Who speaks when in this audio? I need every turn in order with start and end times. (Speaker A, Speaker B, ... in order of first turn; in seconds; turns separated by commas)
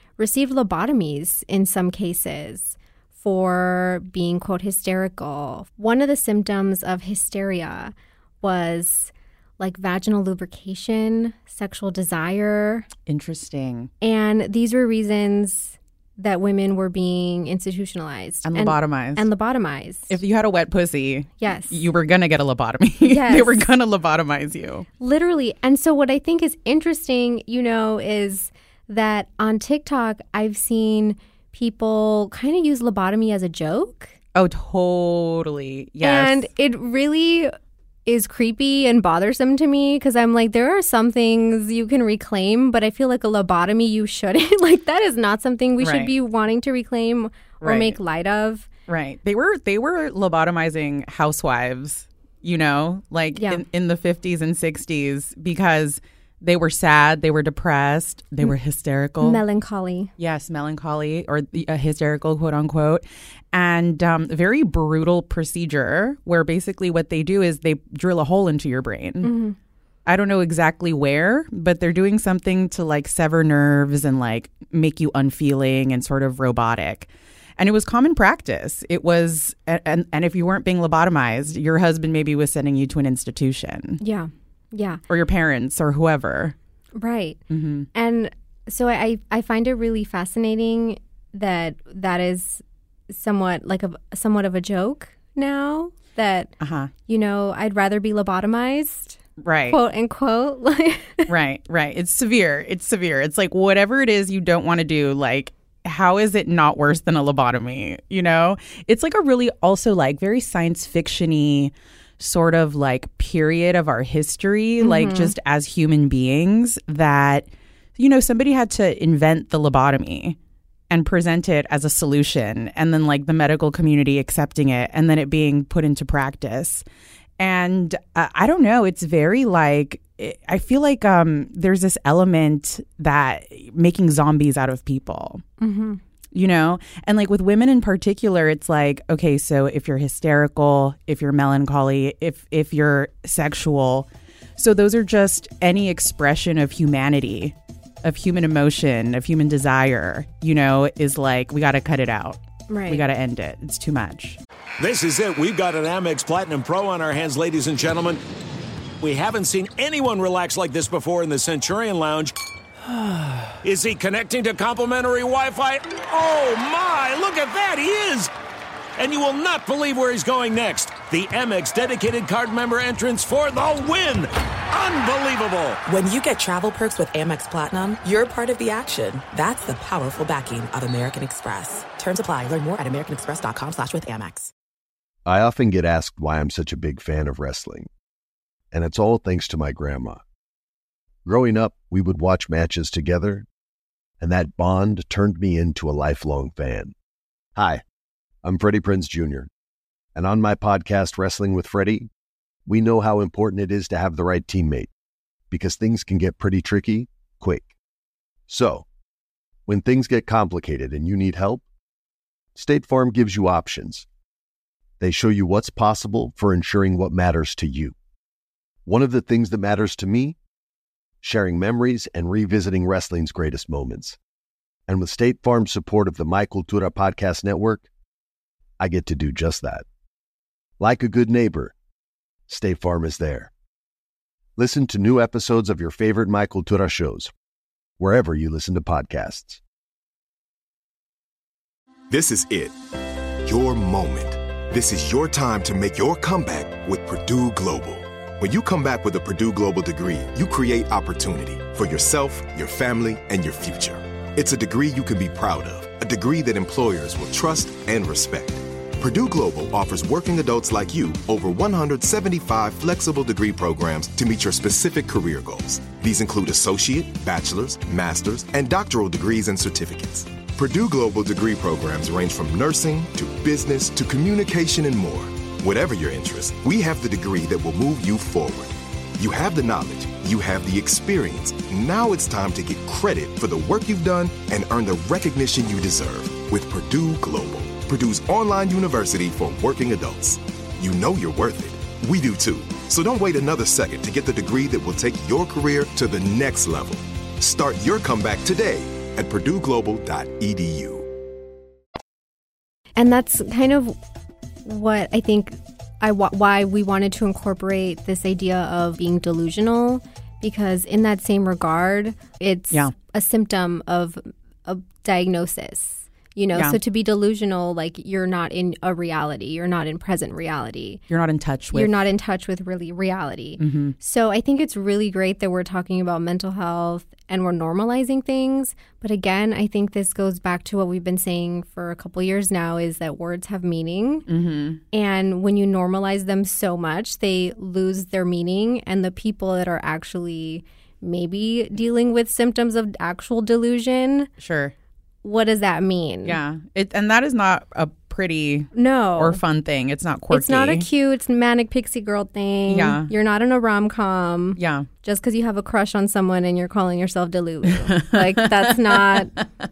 Speaker A: 0.2-12.9, Speaker B: 13.1-13.9, Speaker A: 14.0-20.2, Speaker B: 18.4-19.3, Speaker B: 20.1-24.9, Speaker A: 21.4-21.8, Speaker A: 23.0-23.7, Speaker A: 25.0-34.1, Speaker B: 34.3-36.5, Speaker A: 36.0-37.5, Speaker A: 38.0-48.7, Speaker B: 45.8-46.1, Speaker B: 47.6-48.0, Speaker B: 48.9-59.4, Speaker A: 53.4-53.6, Speaker A: 59.2-60.1, Speaker B: 60.2-69.3, Speaker A: 69.2-69.6, Speaker B: 70.0-84.0, Speaker A: 84.0-85.0, Speaker B: 85.1-86.5, Speaker A: 86.9-87.4, Speaker B: 87.5-87.9, Speaker A: 87.9-96.5, Speaker B: 96.6-96.9, Speaker A: 97.1-101.3, Speaker B: 99.4-99.8, Speaker B: 101.3-120.4, Speaker A: 114.8-115.3, Speaker B: 120.9-126.8, Speaker B: 127.4-135.4, Speaker A: 135.6-136.0, Speaker B: 136.3-154.4, Speaker A: 152.7-153.0, Speaker C: 154.8-158.2, Speaker C: 159.0-162.3, Speaker C: 163.6-168.3, Speaker C: 169.0-175.8, Speaker D: 175.8-184.5, Speaker E: 185.2-187.9, Speaker E: 188.7-190.2, Speaker E: 191.2-193.4, Speaker E: 194.2-196.9, Speaker E: 197.6-197.8, Speaker E: 198.4-199.5, Speaker E: 200.1-202.1, Speaker E: 202.7-204.9, Speaker E: 205.5-207.7, Speaker E: 208.5-208.8, Speaker E: 209.7-211.6, Speaker E: 212.5-214.1, Speaker E: 215.0-217.9, Speaker E: 218.8-220.4, Speaker E: 221.2-224.2, Speaker E: 224.9-227.9, Speaker E: 228.8-229.8, Speaker E: 230.8-231.7, Speaker E: 232.5-233.5, Speaker E: 234.6-237.3, Speaker E: 238.0-239.6, Speaker F: 242.1-242.8, Speaker F: 243.4-301.1, Speaker A: 303.0-304.0, Speaker A: 304.6-321.0, Speaker B: 321.1-322.1, Speaker A: 321.7-334.2, Speaker B: 323.6-323.9, Speaker B: 334.3-334.8, Speaker A: 334.9-344.3, Speaker B: 344.4-344.7, Speaker A: 345.2-346.4, Speaker B: 346.2-350.9, Speaker A: 348.7-349.4, Speaker A: 350.3-359.4, Speaker B: 352.7-353.1, Speaker B: 354.6-354.9, Speaker B: 357.9-359.2